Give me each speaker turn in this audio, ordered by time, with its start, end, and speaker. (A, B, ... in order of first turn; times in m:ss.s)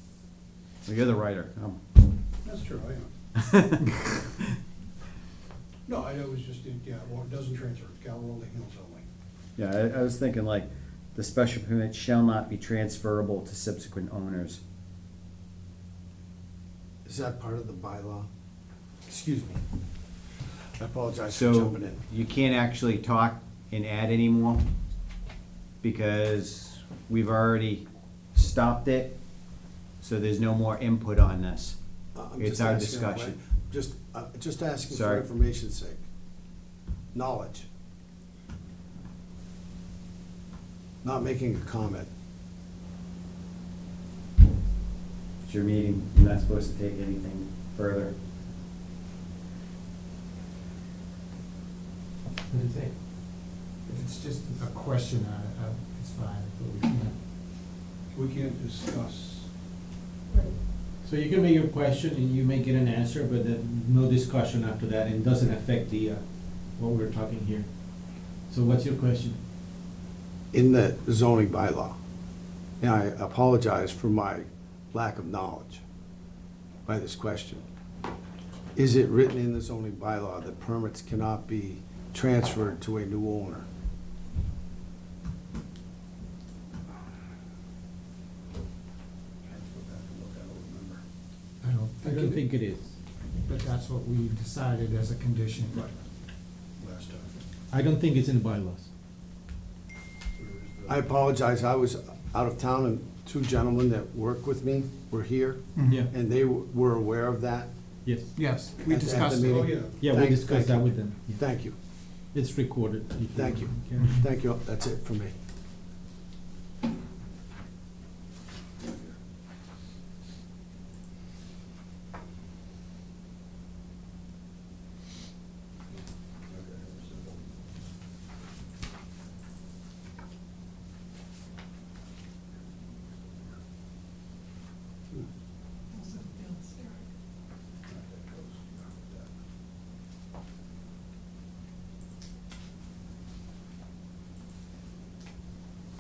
0:00.8-0:01.8 A
0:02.4-0:03.1 B
0:03.4-0:04.3 A
0:05.9-0:09.1 B
0:09.6-0:14.6 A
0:17.0-0:18.3 C
0:19.1-0:19.6 C
0:20.8-0:22.0 C
0:21.3-0:24.6 A
0:25.8-0:29.2 A
0:30.0-0:31.8 A
0:32.2-0:36.0 C
0:32.4-0:33.4 A
0:34.9-0:35.2 A
0:37.1-0:37.7 C
0:41.0-0:42.1 C
0:45.4-0:48.1 A
0:52.5-0:53.6 D
0:53.9-0:57.2 E
0:58.1-0:59.5 B
1:01.0-1:09.4 D
1:10.5-1:12.0 C
1:12.8-1:15.8 C
1:16.9-1:17.6 C
1:18.8-1:23.6 C
1:29.4-1:31.0 B
1:31.6-1:32.5 E
1:32.0-1:32.9 D
1:33.4-1:35.9 E
1:35.7-1:36.0 B
1:36.8-1:37.3 B
1:37.7-1:38.9 D
1:40.4-1:41.1 B
1:40.9-1:47.7 C
1:45.8-1:46.1 E
1:45.8-1:46.1 D
1:48.0-1:48.3 D
1:48.4-1:49.6 E
1:48.8-1:51.8 C
1:49.4-1:50.0 B
1:49.9-1:51.4 D
1:52.3-1:54.2 D
1:53.3-1:55.3 C
2:06.5-2:07.3 B
2:17.9-2:19.3 B